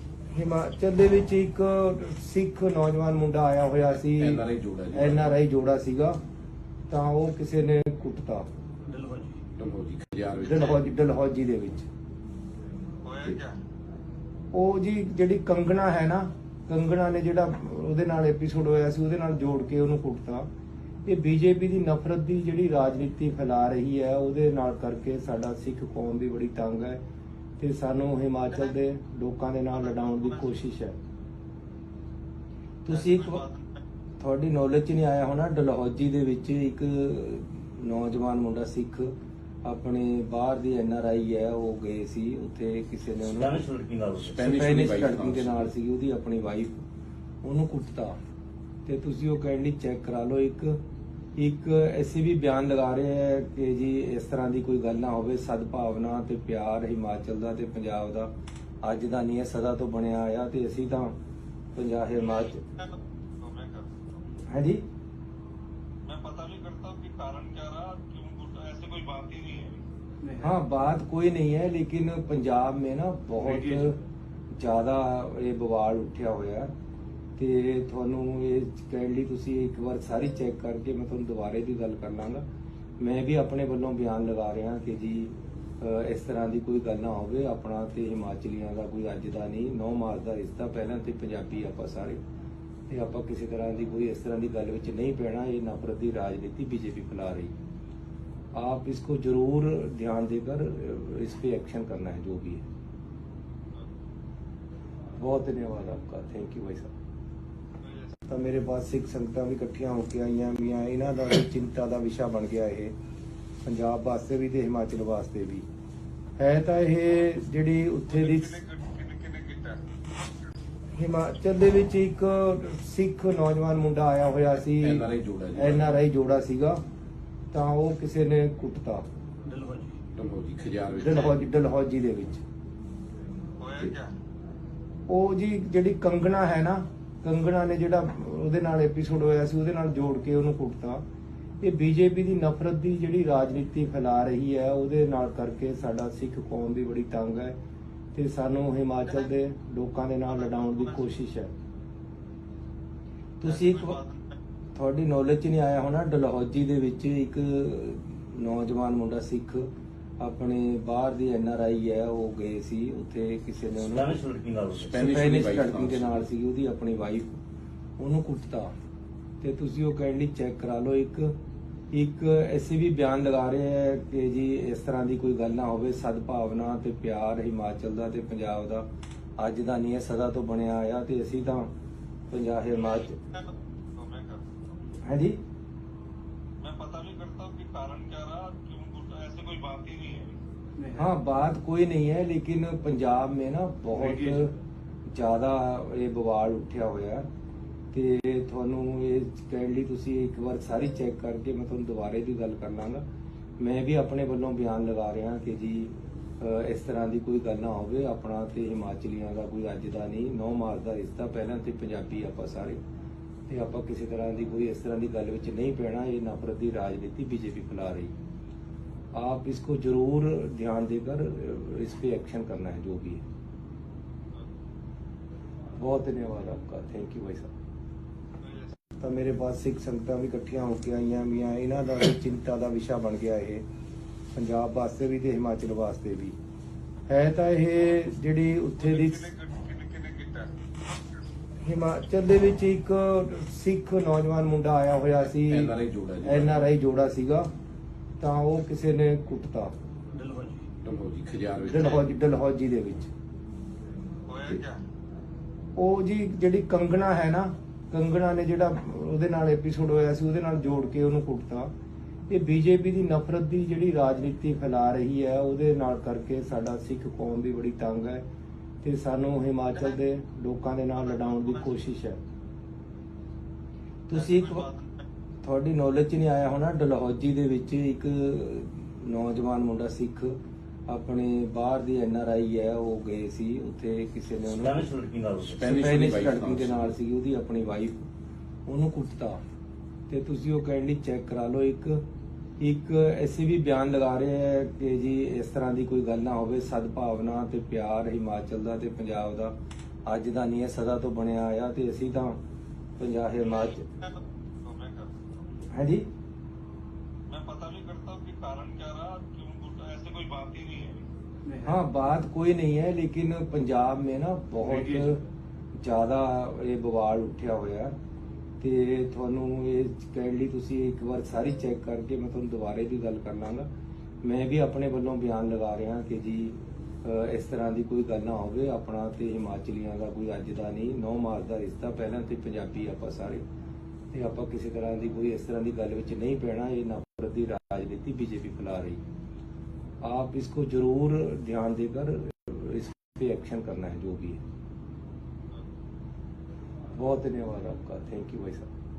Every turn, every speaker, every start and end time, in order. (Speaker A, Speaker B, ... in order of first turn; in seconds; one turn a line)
Speaker A: 0.3-6.2
Speaker B: 4.1-5.4
Speaker A: 6.9-8.4
Speaker C: 8.9-9.3
Speaker B: 9.5-10.8
Speaker A: 10.4-11.9
Speaker D: 13.0-13.6
Speaker A: 14.5-20.5
Speaker A: 21.0-27.0
Speaker A: 27.6-31.0
Speaker D: 29.8-30.6
Speaker A: 32.8-33.5
Speaker D: 32.9-33.8
Speaker A: 34.2-39.1
Speaker A: 39.6-43.6
Speaker C: 43.2-44.4
Speaker B: 44.2-45.7
Speaker A: 44.3-46.8
Speaker A: 47.4-48.2
Speaker A: 48.8-50.8
Speaker A: 51.4-58.3
Speaker A: 58.8-61.1
Speaker A: 61.7-62.6
Speaker D: 62.4-64.1
Speaker A: 64.5-64.8
Speaker D: 66.0-69.8
Speaker A: 70.3-74.0
Speaker A: 74.5-76.7
Speaker A: 77.4-82.4
Speaker A: 83.0-92.2
Speaker A: 92.9-97.5
Speaker A: 98.5-102.7
Speaker A: 105.2-106.9
Speaker D: 107.8-108.1
Speaker A: 108.3-112.9
Speaker A: 113.6-115.7
Speaker A: 116.4-118.6
Speaker D: 118.1-119.8
Speaker A: 120.9-126.8
Speaker B: 124.7-126.0
Speaker A: 127.5-129.0
Speaker C: 129.4-129.9
Speaker B: 130.1-131.4
Speaker A: 131.0-132.4
Speaker D: 133.6-134.1
Speaker A: 135.1-141.0
Speaker A: 141.6-147.6
Speaker A: 148.1-151.5
Speaker D: 150.3-151.1
Speaker A: 153.4-154.0
Speaker D: 153.4-154.3
Speaker A: 154.7-159.7
Speaker A: 160.2-164.2
Speaker C: 163.8-165.0
Speaker B: 164.7-166.2
Speaker A: 164.9-167.4
Speaker A: 168.0-168.7
Speaker A: 169.4-171.3
Speaker A: 171.9-178.9
Speaker A: 179.4-181.7
Speaker A: 182.3-183.2
Speaker D: 182.8-184.5
Speaker A: 185.0-185.4
Speaker D: 186.6-190.9
Speaker A: 190.9-194.6
Speaker A: 195.1-197.2
Speaker A: 197.9-203.0
Speaker A: 203.6-212.8
Speaker A: 213.5-218.1
Speaker A: 219.1-223.2
Speaker A: 225.8-227.5
Speaker D: 228.4-228.7
Speaker A: 229.0-233.6
Speaker A: 234.3-236.3
Speaker A: 237.1-239.3
Speaker D: 238.8-240.5
Speaker A: 241.6-247.5
Speaker B: 245.3-246.7
Speaker A: 248.2-249.7
Speaker C: 250.1-250.6
Speaker B: 250.8-252.0
Speaker A: 251.6-253.1
Speaker D: 254.3-254.8
Speaker A: 255.8-261.7
Speaker A: 262.3-268.2
Speaker A: 268.8-272.2
Speaker D: 271.0-271.8
Speaker A: 274.1-274.7
Speaker D: 274.1-275.0
Speaker A: 275.4-280.4
Speaker A: 280.9-284.9
Speaker C: 284.5-285.6
Speaker B: 285.4-286.9
Speaker A: 285.6-288.0
Speaker A: 288.7-289.4
Speaker A: 290.1-292.0
Speaker A: 292.6-299.5
Speaker A: 300.1-302.4
Speaker A: 303.0-303.8
Speaker D: 303.6-305.4
Speaker A: 305.7-306.1
Speaker D: 307.2-311.6
Speaker A: 311.6-315.2
Speaker A: 315.8-317.9
Speaker A: 318.6-323.7
Speaker A: 324.2-333.4
Speaker A: 334.1-339.0
Speaker A: 340.0-344.4
Speaker A: 346.9-348.7